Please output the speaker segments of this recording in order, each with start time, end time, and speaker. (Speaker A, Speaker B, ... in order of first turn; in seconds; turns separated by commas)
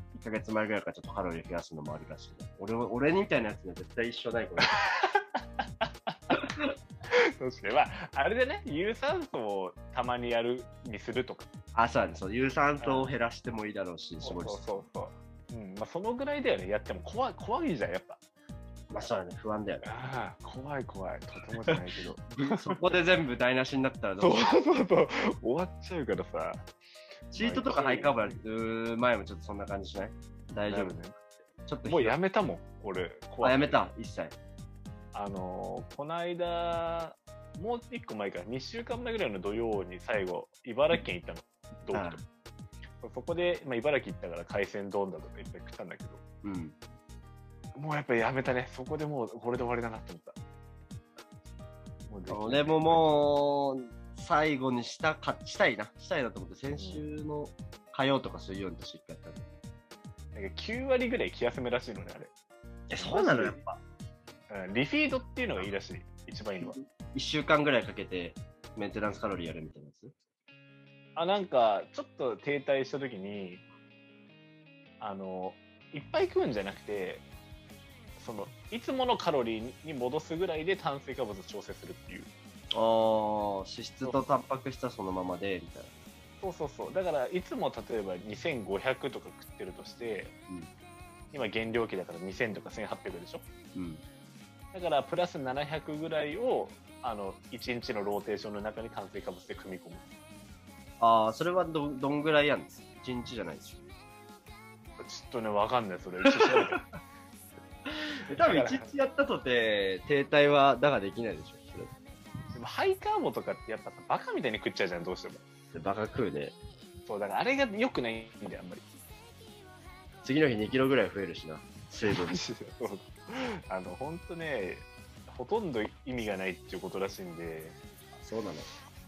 Speaker A: 0.1-4.7, Speaker B: 4.6-6.4, Speaker B: 7.1-11.6, Speaker A: 11.7-14.6, Speaker B: 12.8-13.1, Speaker B: 14.2-18.2, Speaker A: 18.9-20.0, Speaker B: 19.8-22.8, Speaker A: 22.3-24.4, Speaker B: 24.2-26.6, Speaker B: 27.3-28.4, Speaker A: 27.3-31.0, Speaker B: 30.7-31.2, Speaker A: 31.6-32.1, Speaker B: 31.8-33.9, Speaker A: 33.4-34.3, Speaker B: 35.1-42.2, Speaker A: 41.9-42.2, Speaker B: 43.0-46.2, Speaker A: 46.4-46.7, Speaker B: 47.7-50.4, Speaker B: 52.1-53.3, Speaker A: 52.3-59.5, Speaker B: 56.7-57.1, Speaker B: 60.3-62.3, Speaker A: 62.9-63.8, Speaker B: 63.0-63.6, Speaker B: 64.5-66.8, Speaker A: 66.6-70.1, Speaker B: 71.2-73.6, Speaker B: 75.0-77.2, Speaker B: 78.2-82.3, Speaker A: 82.7-85.9, Speaker B: 86.4-90.3, Speaker B: 91.3-93.4, Speaker A: 93.7-94.0, Speaker B: 94.7-100.1, Speaker A: 101.0-103.8, Speaker B: 105.0-106.8, Speaker A: 106.3-106.8, Speaker A: 107.9-111.9, Speaker B: 108.4-108.9, Speaker B: 112.5-115.4, Speaker A: 115.7-116.5, Speaker B: 117.0-118.8, Speaker A: 120.2-122.4, Speaker B: 122.1-127.8, Speaker A: 128.2-128.7